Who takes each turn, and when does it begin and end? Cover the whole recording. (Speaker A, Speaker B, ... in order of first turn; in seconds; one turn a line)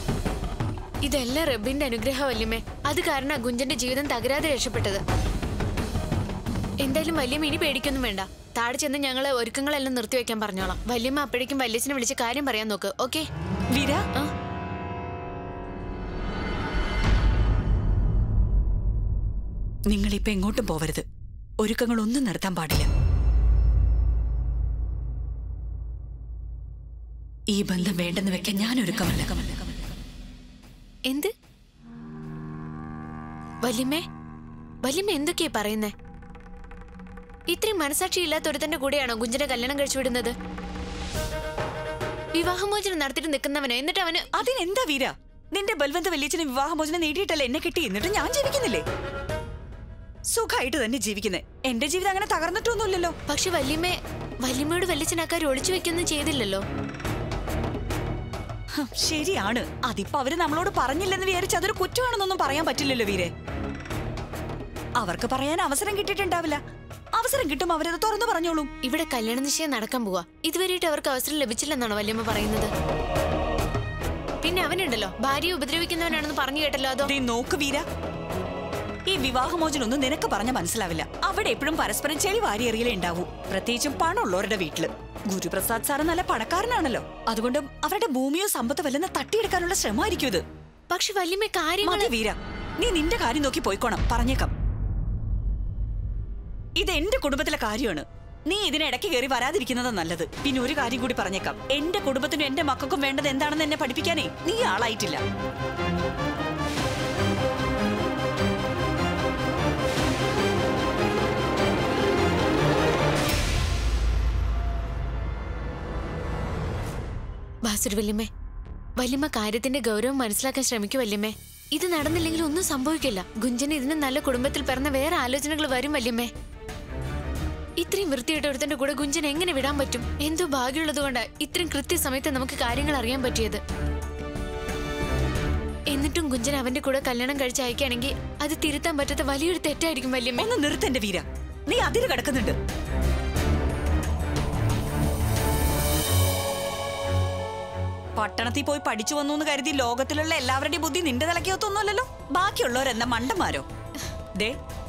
Speaker A: 1.1-5.0
Speaker A: 6.8-13.3
Speaker B: 13.8-14.0
Speaker B: 19.9-21.1
Speaker B: 21.6-22.9
Speaker B: 27.5-29.6
Speaker A: 31.1-31.3
Speaker A: 33.6-34.0
Speaker A: 34.8-35.9
Speaker A: 37.5-40.4
Speaker A: 42.4-44.3
Speaker B: 44.4-48.9
Speaker B: 50.3-53.1
Speaker A: 53.3-56.6
Speaker B: 58.8-63.3
Speaker B: 65.0-66.6
Speaker B: 67.2-68.7
Speaker A: 68.8-72.7
Speaker A: 74.4-77.1
Speaker B: 77.1-77.8
Speaker B: 79.1-90.4
Speaker A: 90.9-92.1
Speaker B: 91.8-94.5
Speaker B: 96.8-105.2
Speaker A: 117.7-118.3
Speaker A: 119.0-126.3
Speaker A: 127.8-133.6
Speaker A: 135.9-140.5
Speaker B: 140.4-142.6
Speaker B: 148.2-153.7